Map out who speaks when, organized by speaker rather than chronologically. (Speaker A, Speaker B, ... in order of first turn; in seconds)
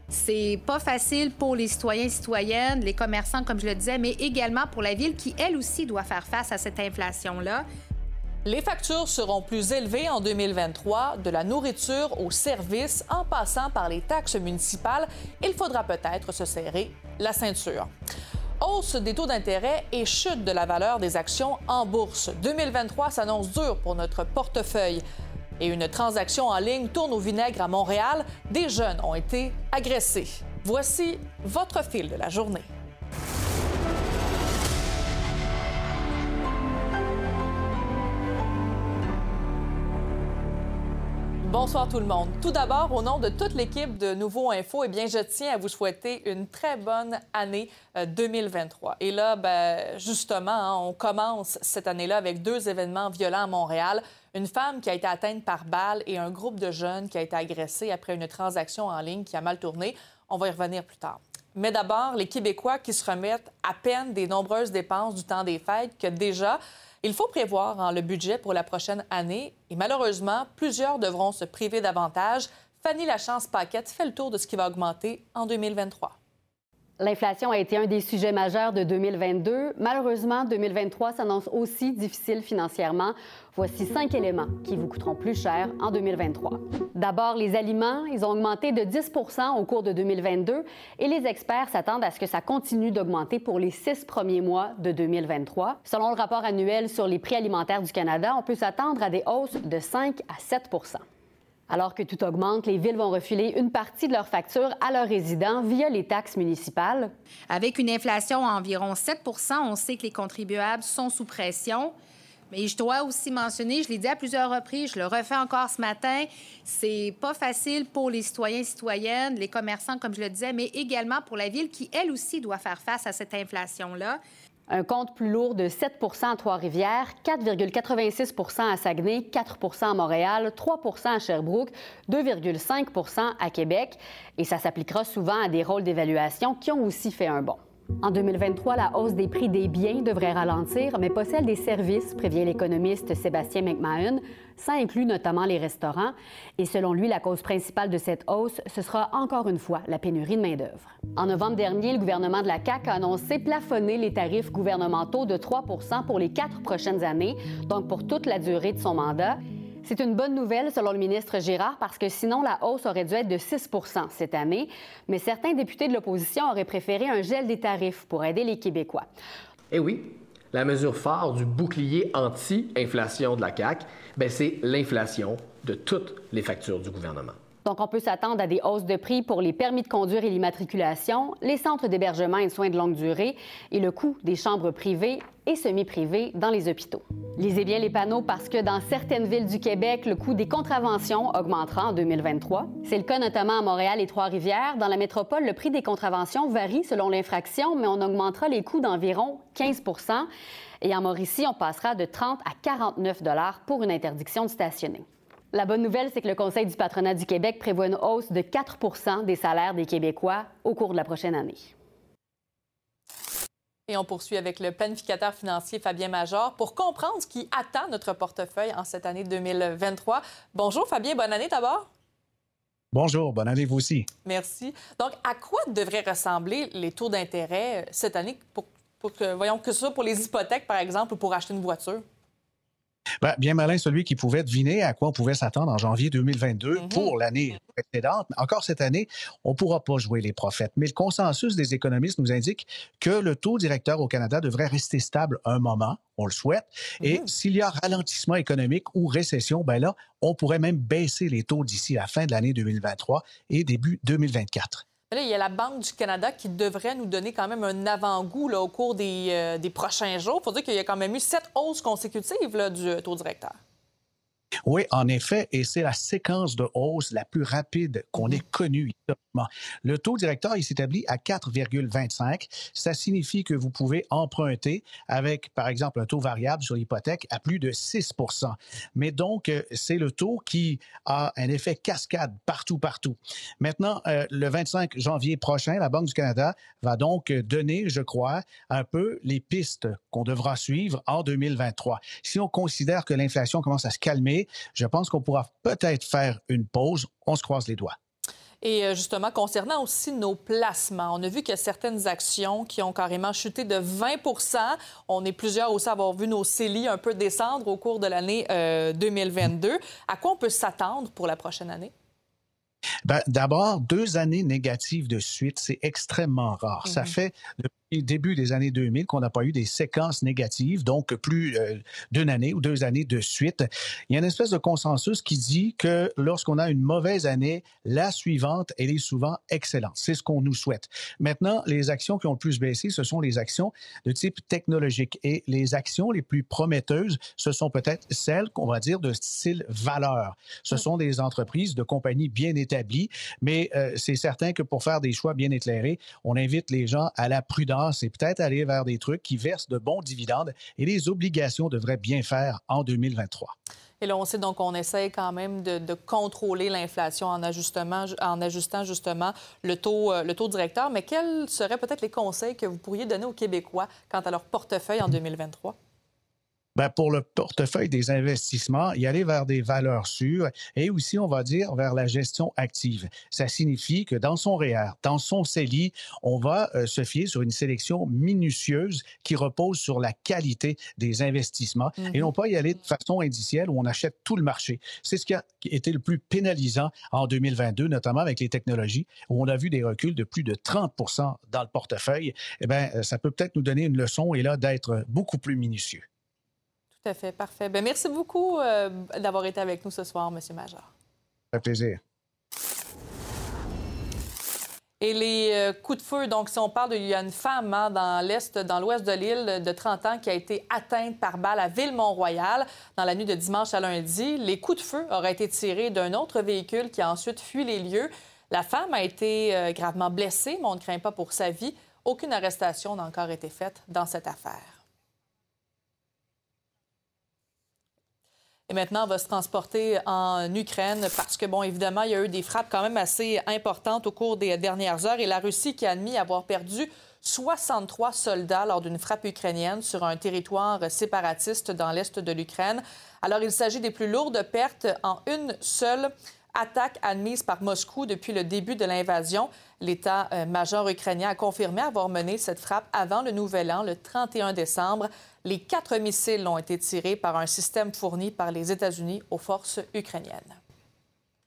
Speaker A: 0.1-7.7, 107.5-112.0, 112.5-124.2
Speaker B: 8.4-17.9, 18.6-25.0, 25.6-32.7, 41.4-76.2, 213.9-221.9, 224.2-232.0, 255.1-263.6, 298.6-311.9, 316.9-317.1, 354.0-365.8, 397.0-400.9, 405.0-424.8, 428.7-460.6
Speaker C: 77.0-101.0, 101.7-107.1, 124.7-169.1, 177.7-200.3, 200.8-211.7
Speaker D: 169.7-177.4
Speaker E: 222.9-224.1, 233.2-254.8, 264.7-297.9, 313.1-353.5, 366.8-396.1, 401.5-402.0